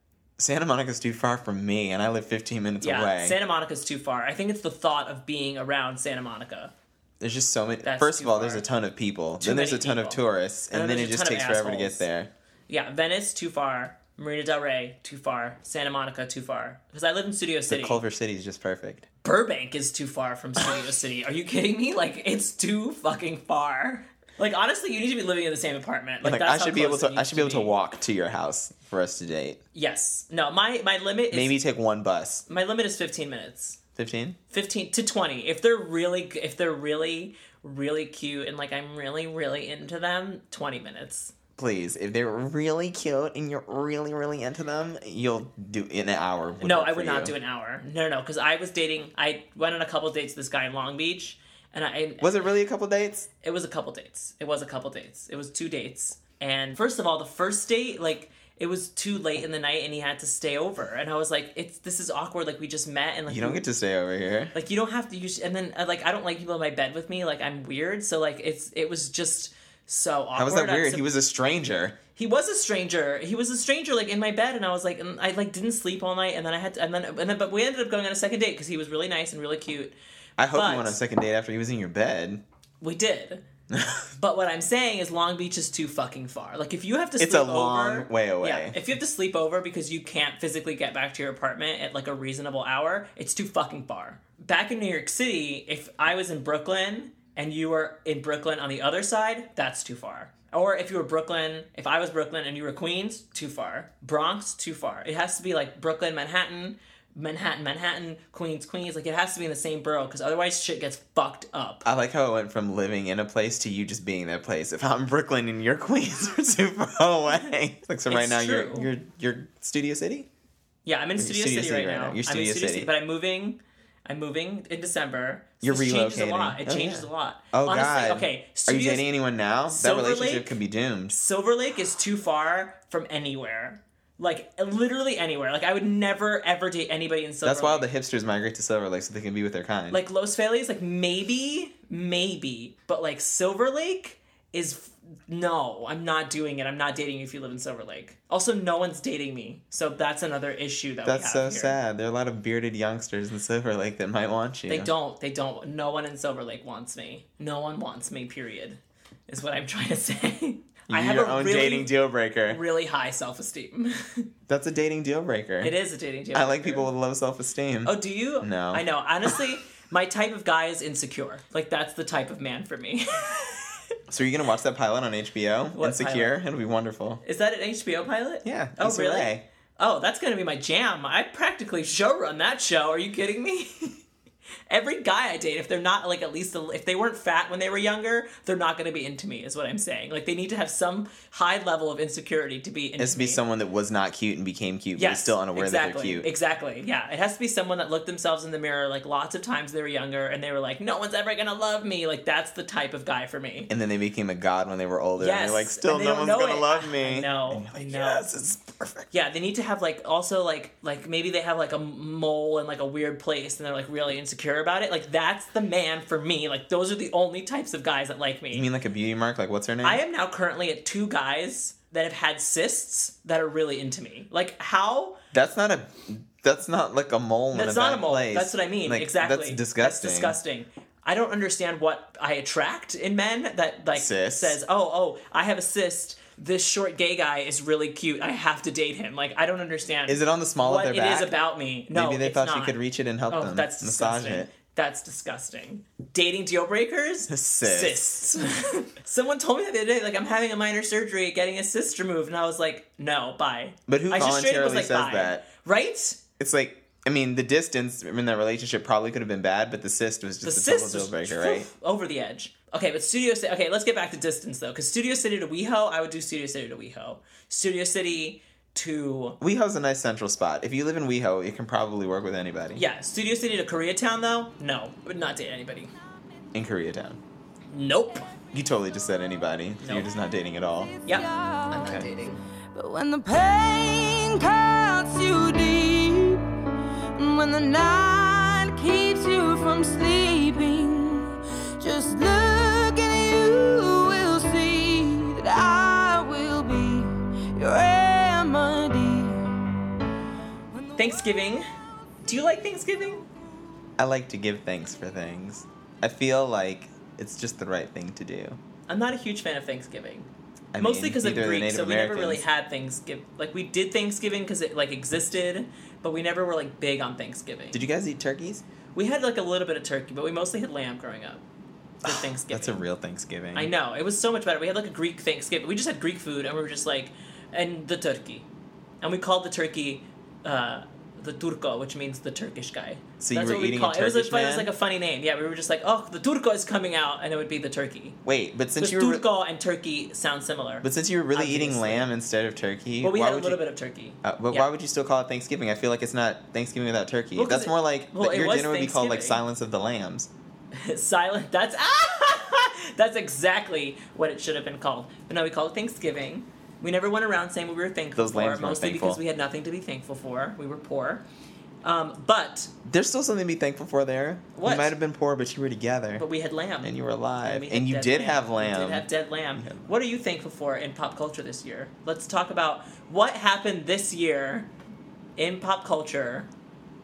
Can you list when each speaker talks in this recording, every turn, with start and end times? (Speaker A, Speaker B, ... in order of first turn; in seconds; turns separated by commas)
Speaker A: 0.4-3.4, Speaker B: 2.8-6.7, Speaker A: 7.2-12.3, Speaker B: 7.8-8.6, Speaker B: 9.4-12.1, Speaker B: 12.7-18.0, Speaker A: 17.7-19.1, Speaker B: 19.2-27.7, Speaker A: 26.2-29.6, Speaker B: 29.7-31.6, Speaker A: 31.3-32.4, Speaker B: 32.5-33.8, Speaker A: 34.0-34.4, Speaker B: 34.5-41.3, Speaker A: 41.6-47.4, Speaker B: 46.6-52.5, Speaker A: 52.2-53.3, Speaker B: 53.4-63.6, Speaker A: 63.3-64.5, Speaker B: 64.5-71.1, Speaker A: 70.3-72.0, Speaker B: 72.2-79.9, Speaker A: 80.4-82.4, Speaker B: 80.5-81.0, Speaker B: 82.8-83.4, Speaker A: 83.7-84.1, Speaker B: 84.2-111.8, Speaker A: 87.2-88.8, Speaker A: 111.8-120.3, Speaker B: 118.1-118.9, Speaker B: 120.8-129.1, Speaker A: 121.2-122.9, Speaker A: 125.6-131.2, Speaker B: 129.7-130.5, Speaker B: 131.1-137.9, Speaker A: 137.4-140.0, Speaker B: 139.9-151.8, Speaker A: 151.0-154.9, Speaker B: 154.7-161.9, Speaker A: 160.9-162.6, Speaker B: 162.5-164.3, Speaker A: 164.5-165.8, Speaker B: 165.6-166.9, Speaker A: 166.3-169.4, Speaker B: 167.9-173.8, Speaker A: 174.1-177.2, Speaker B: 175.8-176.4, Speaker B: 177.2-184.0, Speaker A: 178.4-179.4, Speaker B: 184.7-193.4, Speaker A: 193.0-196.3, Speaker B: 195.0-203.7, Speaker A: 203.7-209.1, Speaker B: 205.2-208.2, Speaker B: 209.1-218.7, Speaker A: 218.5-220.0, Speaker B: 219.8-225.2, Speaker A: 225.3-230.4, Speaker B: 227.5-242.8, Speaker A: 233.9-234.6, Speaker A: 240.1-241.3, Speaker A: 241.9-244.5, Speaker B: 243.3-256.2, Speaker A: 247.3-248.2, Speaker A: 253.9-255.4, Speaker A: 256.4-261.7, Speaker B: 260.4-269.4, Speaker A: 269.4-272.8, Speaker B: 272.8-275.9, Speaker A: 276.5-277.2, Speaker B: 277.7-278.3, Speaker A: 278.5-280.9, Speaker B: 279.8-280.1, Speaker C: 281.1-281.9, Speaker B: 281.1-282.4, Speaker A: 281.8-282.1, Speaker C: 282.7-286.5, Speaker C: 287.1-299.8, Speaker C: 300.7-301.3, Speaker B: 301.0-301.7, Speaker B: 302.2-303.3, Speaker A: 304.0-308.6, Speaker B: 308.9-317.8, Speaker A: 310.7-312.4, Speaker A: 317.7-318.6, Speaker B: 318.9-321.4, Speaker B: 322.0-322.8, Speaker A: 322.0-323.7, Speaker B: 323.5-328.4, Speaker B: 329.0-338.2, Speaker A: 333.2-334.7, Speaker A: 338.2-339.2, Speaker B: 338.8-342.1, Speaker A: 340.8-343.6, Speaker B: 343.0-344.7, Speaker A: 344.2-350.3, Speaker B: 347.4-349.4, Speaker B: 350.7-361.2, Speaker A: 358.1-359.2, Speaker B: 361.8-362.7, Speaker A: 362.9-366.2, Speaker B: 364.5-364.9, Speaker B: 366.2-374.7, Speaker A: 366.8-369.9, Speaker B: 375.4-376.5